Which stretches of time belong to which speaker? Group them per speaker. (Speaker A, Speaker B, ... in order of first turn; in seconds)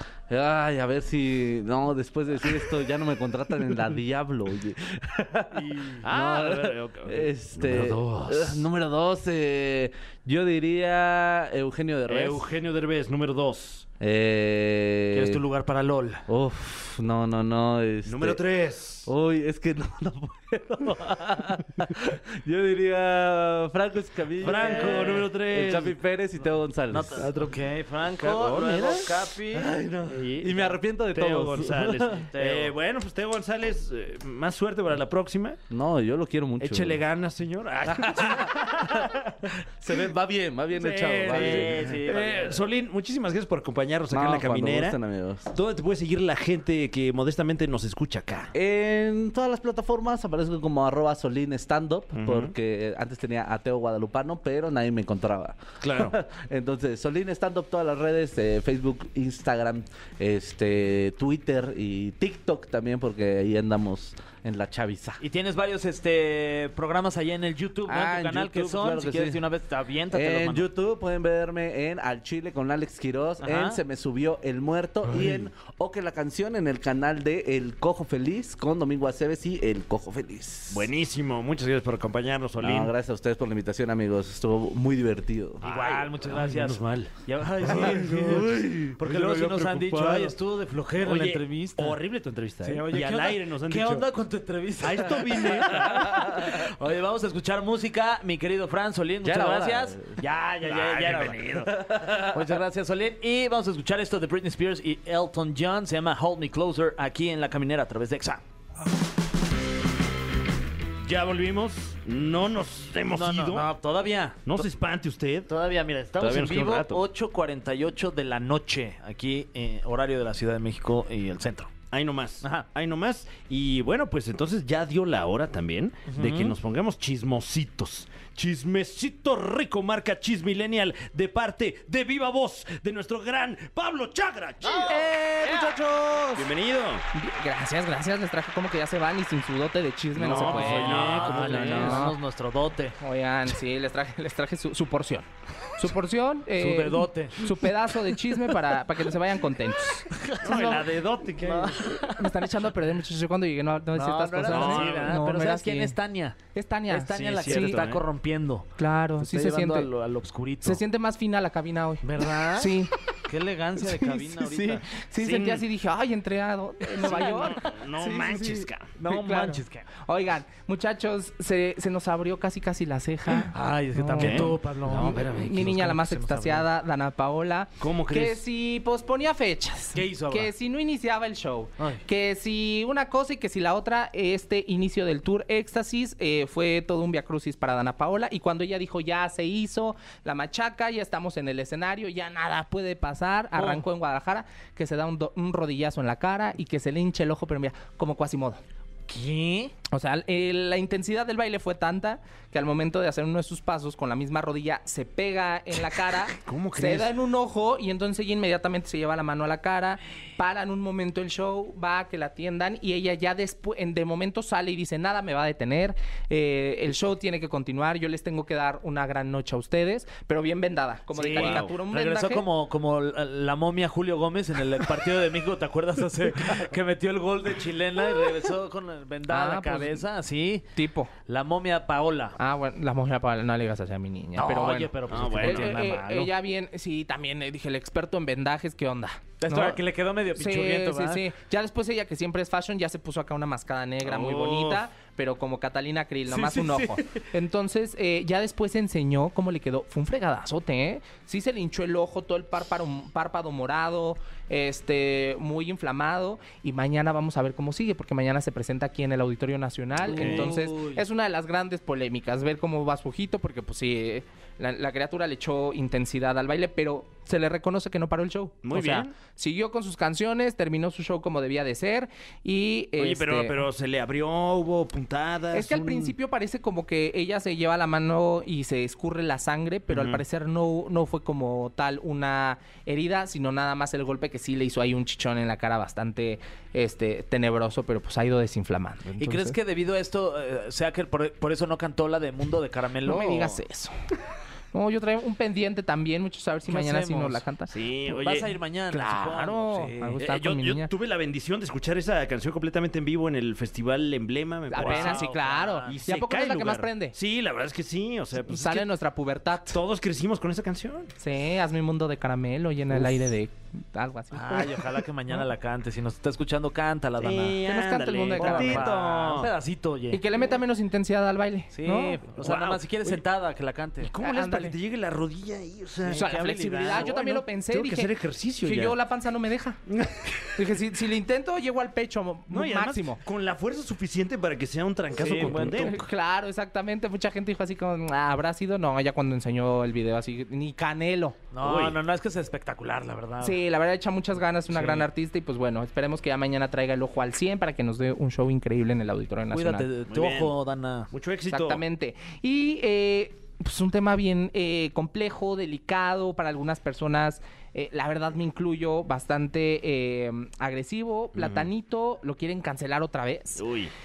Speaker A: 0.3-12.5, 14.0-15.4, 16.3-18.4, 19.1-27.3, 29.5-32.2, 35.7-37.0, 37.9-39.2, 39.8-42.0, 44.1-45.5, 48.5-65.2, 67.9-69.4, 70.1-80.9, 82.6-85.6, 87.7-89.0, 96.1-96.4, 99.2-100.2, 101.7-102.4
Speaker B: 5.5-6.0, 15.1-16.2, 24.4-25.3, 26.9-29.7, 32.2-32.7, 41.3-42.6, 65.2-70.7, 73.4-73.8, 85.6-92.0, 92.6-101.7, 102.2-108.4, 113.1-114.6, 115.5-121.7, 126.1-126.6, 134.6-135.7, 140.2-143.0, 146.6-147.7, 150.1-150.9, 151.4-152.4, 153.9-156.4, 156.9-160.8, 162.0-164.9, 167.0-167.6, 169.0-169.9, 173.4-176.7, 179.9-180.5, 181.8-182.0, 193.6-193.8, 199.1-199.7, 221.1-230.7, 231.3-232.4, 234.4-236.3, 239.4-241.3, 246.3-247.2, 260.0-261.0, 289.2-293.6, 296.7-297.4, 298.1-300.2, 304.7-306.0, 314.3-317.6, 318.3-320.2, 321.7-324.1, 326.1-327.2, 335.1-336.0, 341.5-343.6, 344.7-345.1, 349.5-351.1
Speaker C: 6.0-8.7, 12.1-13.8, 18.1-19.1, 24.4-26.0, 27.2-27.5, 28.2-29.1, 30.1-35.6, 36.6-39.3, 40.7-45.0, 45.5-48.5, 52.1-52.5, 55.8-56.2, 75.1-75.4, 80.7-82.9, 85.6-90.3, 91.0-94.1, 94.8-96.3, 100.6-101.8, 111.0-113.7, 114.5-115.5, 116.2-117.0, 121.9-135.0, 136.3-137.1, 140.2-142.1, 150.4-151.9, 154.5-155.2, 157.1-158.0, 165.2-165.7, 167.0-168.9, 174.2-175.7, 177.8-178.4, 206.3-207.1, 221.3-221.8, 235.1-235.7, 244.0-244.8, 260.0-260.5, 268.6-269.1, 273.0-276.2, 279.9-280.2, 297.7-298.6, 300.2-305.3, 305.9-308.9, 309.7-311.1, 317.2-319.5, 322.4-323.2, 324.0-329.0, 329.9-330.6, 332.5-336.1, 341.6-342.0, 350.1-350.6, 351.1-351.8, 361.4-361.7, 363.6-363.9
Speaker D: 134.7-136.5, 137.1-142.2, 143.0-150.8, 152.2-157.9, 158.8-159.9, 160.6-162.9, 163.9-198.6, 199.9-222.5, 229.3-230.1, 230.8-231.1, 232.4-239.8, 240.3-273.6, 275.5-289.6, 293.0-294.0, 294.7-297.8, 298.9-300.9, 304.7-307.2, 308.4-309.8, 311.2-314.8, 317.6-318.9, 320.1-322.2, 324.2-324.8, 326.1-329.8, 330.6-333.2, 335.5-341.4, 343.4-349.9, 351.5-363.6